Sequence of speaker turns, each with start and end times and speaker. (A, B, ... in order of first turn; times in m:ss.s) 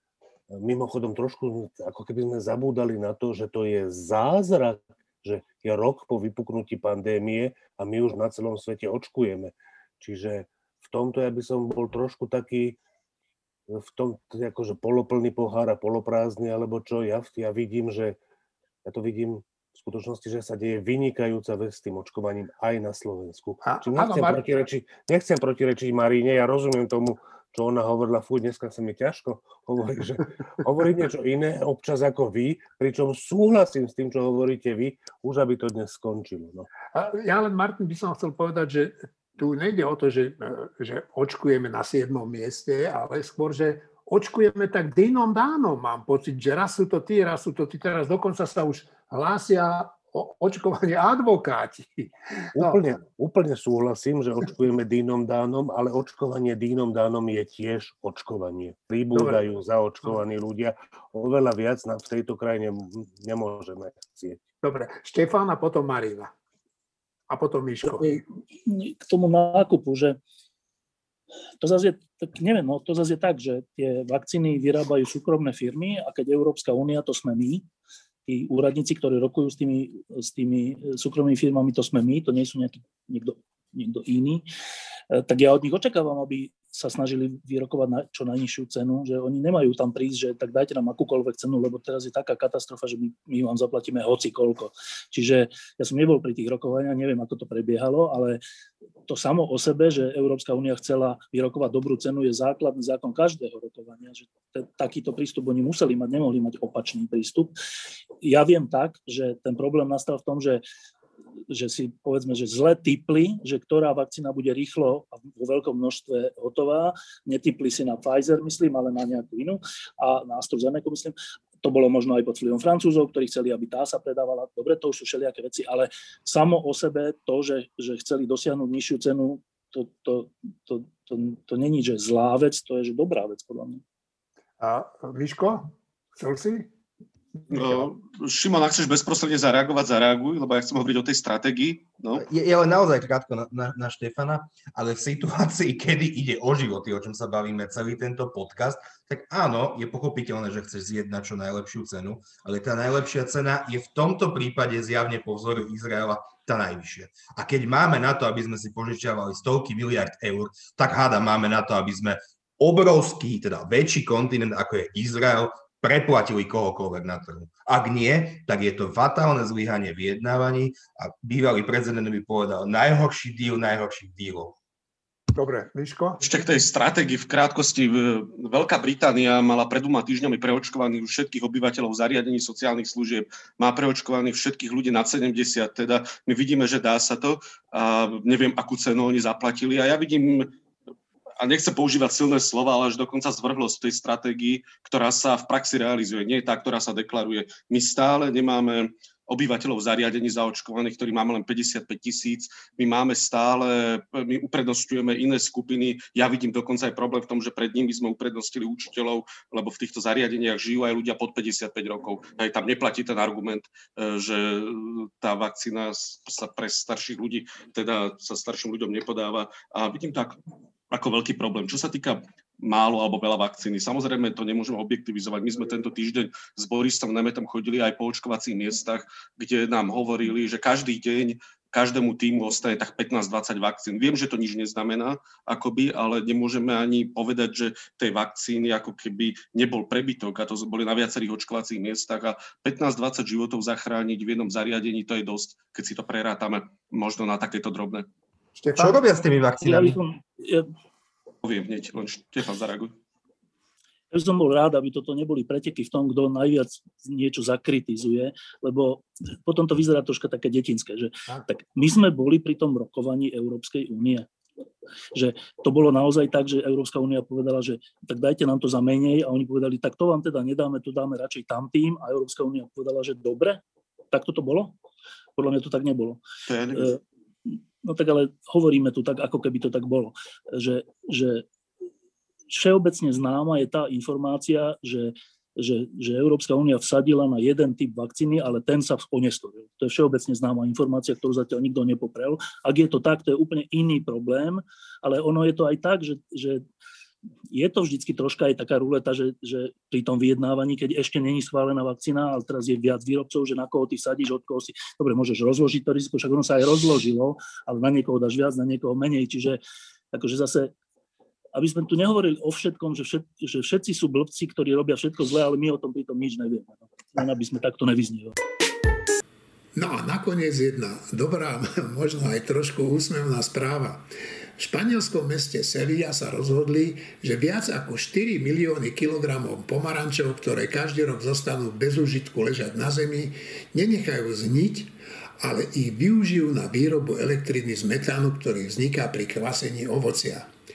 0:00.5-0:12.8 A
0:13.7-0:18.2 A
0:18.8-0:36.7 A
0:23.6-0:24.4 B
0:36.9-0:52.8 B
0:52.5-1:04.4 A
0:59.1-0:59.4 B
1:04.6-1:06.3 B
1:07.3-1:08.2 B
1:08.0-1:10.2 C
1:11.6-1:17.7 C
1:18.3-1:24.4 C
1:25.1-1:38.4 C
1:39.1-1:47.5 C
1:48.2-1:50.6 C
1:51.5-2:13.8 C
2:14.6-2:16.7 B
2:17.4-2:17.9 B
2:17.5-2:22.2 D
2:22.2-2:54.5 E
2:55.3-2:56.2 B
2:56.2-3:10.5 D
3:11.4-3:40.4 D
3:40.9-4:08.1 D
4:08.6-4:09.0 B
4:08.8-4:10.0 E
4:09.6-4:10.7 C
4:11.4-4:12.9 D
4:14.1-4:24.3 C
4:25.1-4:33.6 C
4:34.1-4:34.7 C
4:35.4-4:36.2 C
4:36.5-4:36.9 D
4:36.7-4:37.0 C
4:37.8-4:41.4 C
4:42.5-4:56.6 C
4:57.5-5:09.6 C
5:10.1-5:10.7 C
5:11.5-5:18.4 C
5:19.7-5:40.5 F